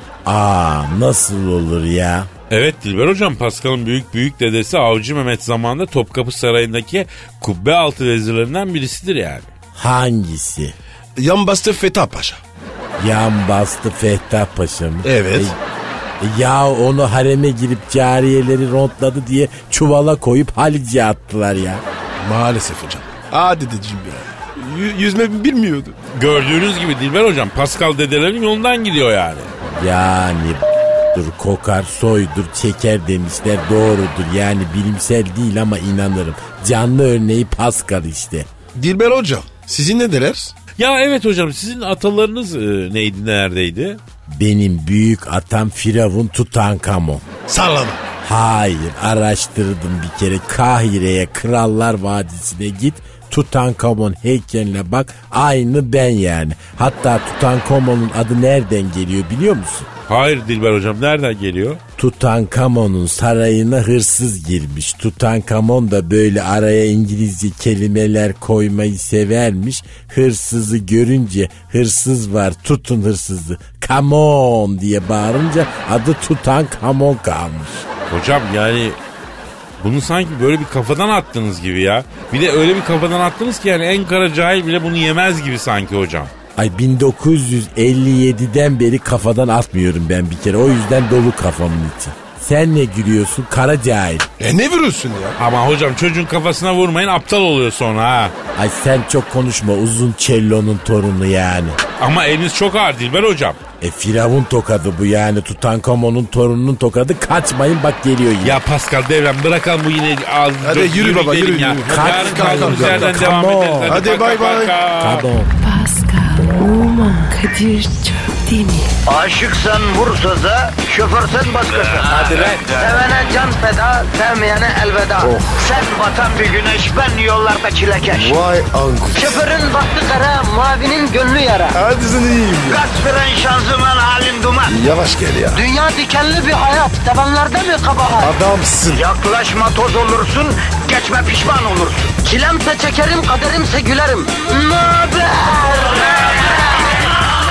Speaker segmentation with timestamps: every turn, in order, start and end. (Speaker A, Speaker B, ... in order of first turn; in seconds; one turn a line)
Speaker A: 0.2-2.3
Speaker B: 2.5-9.5
Speaker A: 9.7-10.7
Speaker C: 11.2-12.4
Speaker A: 13.0-15.6
Speaker C: 15.0-15.6
Speaker A: 16.2-21.8
Speaker C: 22.2-25.9
Speaker B: 26.1-29.5
Speaker A: 29.6-38.5
Speaker C: 38.7-40.5
Speaker B: 40.8-44.0
Speaker A: 44.3-47.2
Speaker C: 47.5-48.0
Speaker A: 48.2-59.9
Speaker B: 60.1-61.8
Speaker A: 62.0-77.8
Speaker B: 78.1-79.0
Speaker B: 79.8-86.3
Speaker A: 86.5-94.3
Speaker C: 94.4-95.3
Speaker B: 95.4-98.3
Speaker A: 98.5-101.8
Speaker B: 102.0-103.6
Speaker A: 103.8-108.6
Speaker B: 108.4-115.3
Speaker C: 110.6-113.3
Speaker A: 111.9-114.0
Speaker C: 113.8-114.8
Speaker A: 115.0-115.5
Speaker D: 115.6-118.9
Speaker E: 119.0-128.4
Speaker C: 122.0-122.5
Speaker C: 125.2-125.6
Speaker C: 128.1-129.4
Speaker E: 129.1-131.8
Speaker C: 131.7-132.8
Speaker E: 132.6-134.7
Speaker C: 134.7-135.6
Speaker E: 135.5-138.3
Speaker C: 138.2-139.0
Speaker E: 138.9-146.6